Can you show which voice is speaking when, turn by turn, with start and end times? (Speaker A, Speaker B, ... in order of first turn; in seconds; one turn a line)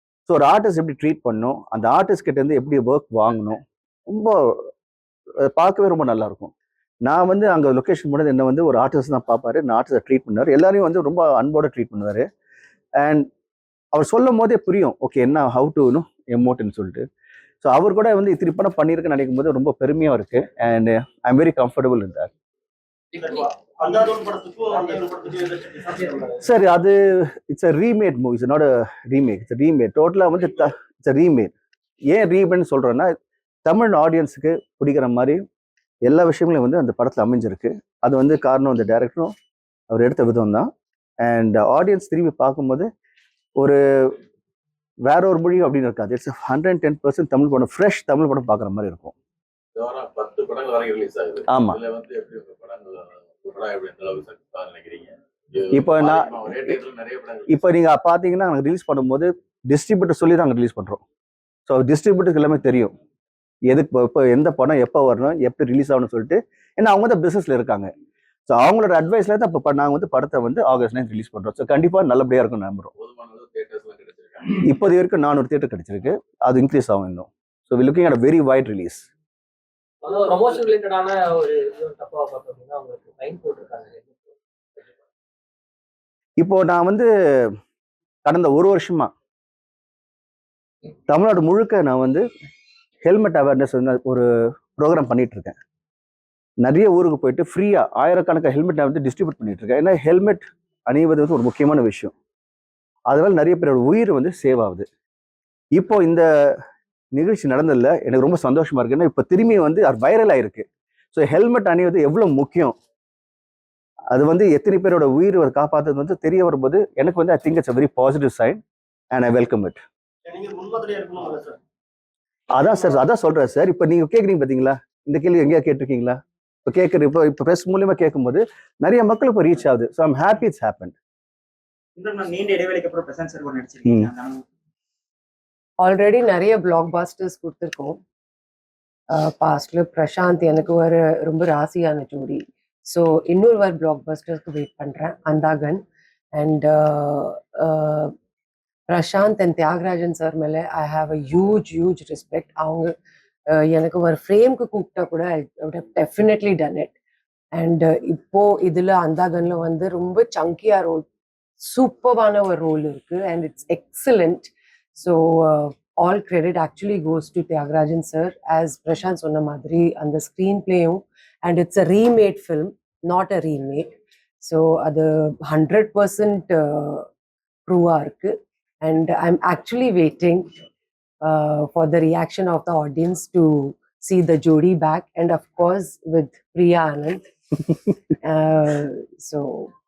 Speaker A: 0.3-4.7
Speaker A: 5.4-6.5
Speaker A: 7.0-12.3
Speaker A: 13.0-13.3
Speaker A: 13.9-17.1
Speaker A: 17.6-22.3
Speaker B: 23.1-26.4
Speaker A: 26.4-31.5
Speaker A: 32.1-33.1
Speaker A: 33.6-35.4
Speaker A: 36.0-39.3
Speaker A: 39.9-40.7
Speaker A: 41.2-42.9
Speaker A: 43.6-44.2
Speaker A: 45.0-49.1
Speaker C: 49.8-57.7
Speaker A: 51.5-51.8
Speaker A: 55.7-56.8
Speaker A: 57.5-61.0
Speaker A: 61.7-62.9
Speaker A: 63.7-67.9
Speaker A: 68.5-72.9
Speaker C: 73.0-74.7
Speaker A: 74.6-79.1
Speaker D: 80.0-84.3
Speaker A: 86.4-87.6
Speaker A: 88.2-89.1
Speaker A: 91.1-92.3
Speaker A: 93.0-95.6
Speaker A: 96.6-102.1
Speaker A: 103.1-104.9
Speaker A: 105.8-106.6
Speaker A: 107.1-112.8
Speaker A: 114.1-118.6
Speaker A: 119.1-119.8
Speaker B: 120.3-121.6
Speaker A: 122.5-131.0
Speaker B: 132.0-134.4
Speaker E: 135.8-138.0
Speaker E: 139.1-148.1
Speaker E: 148.9-152.9
Speaker E: 153.5-156.9
Speaker E: 157.5-161.1
Speaker E: 161.6-177.1
Speaker E: 177.7-180.5
Speaker E: 181.2-187.3
Speaker E: 188.2-189.7